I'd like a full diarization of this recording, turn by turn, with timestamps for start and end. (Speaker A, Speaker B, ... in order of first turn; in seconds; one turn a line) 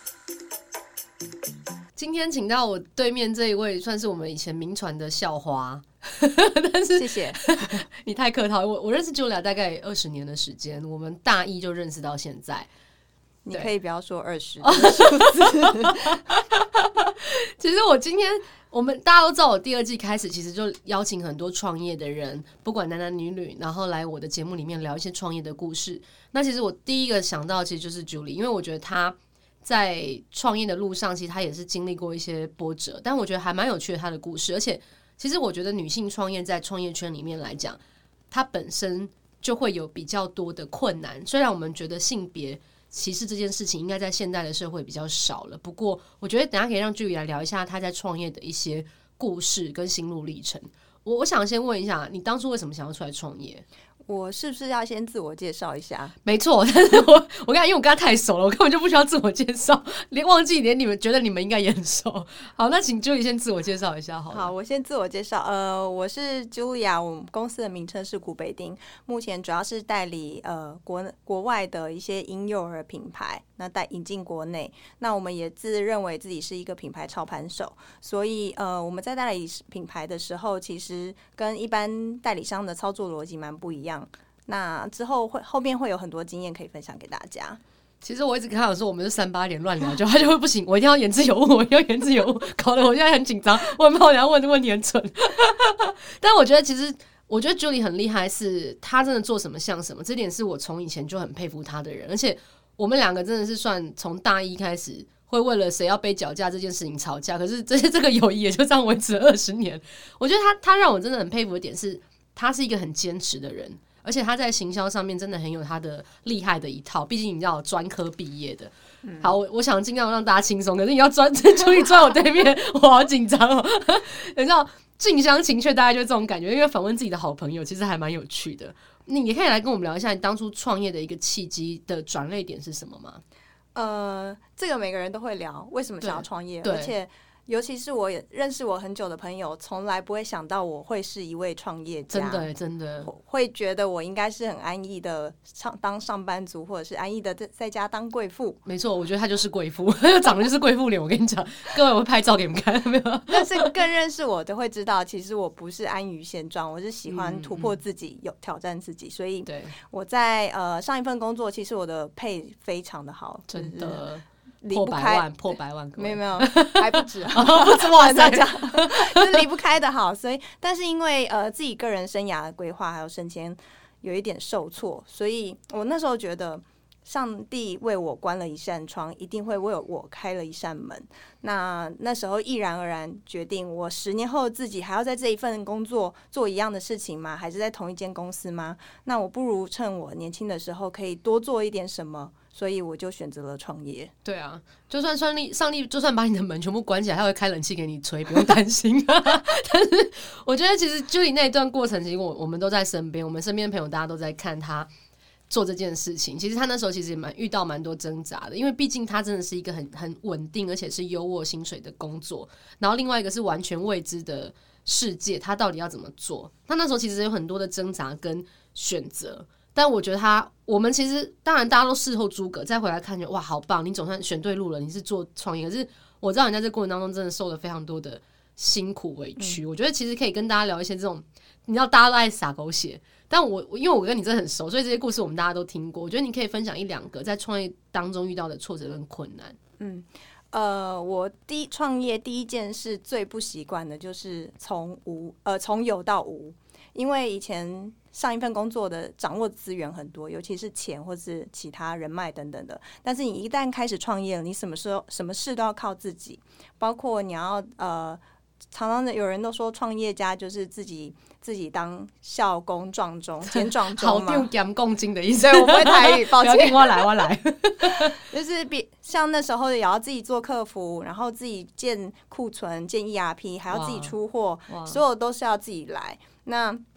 Speaker A: 2.0-12.7
Speaker B: 7.0-7.5
Speaker B: 13.4-16.2
Speaker A: 14.6-37.8
Speaker A: 38.3-53.6
Speaker B: 54.1-56.1
Speaker A: 56.2-64.5
Speaker B: 64.3-87.6
Speaker A: 88.0-133.2
Speaker B: 133.8-142.5
Speaker A: 136.0-136.9
Speaker A: 142.1-143.1
Speaker B: 143.1-148.6
Speaker A: 148.7-153.7
Speaker B: 153.3-164.0
Speaker A: 157.1-157.8
Speaker A: 159.5-159.8
Speaker A: 163.5-169.4
Speaker B: 164.6-165.3
Speaker B: 166.0-194.1
Speaker A: 194.2-204.9
Speaker A: 205.5-239.6
Speaker B: 239.8-258.2
Speaker B: 258.7-264.5
Speaker A: 263.5-268.2
Speaker B: 265.4-267.3
Speaker B: 267.8-276.8
Speaker A: 273.7-274.1
Speaker A: 274.7-275.0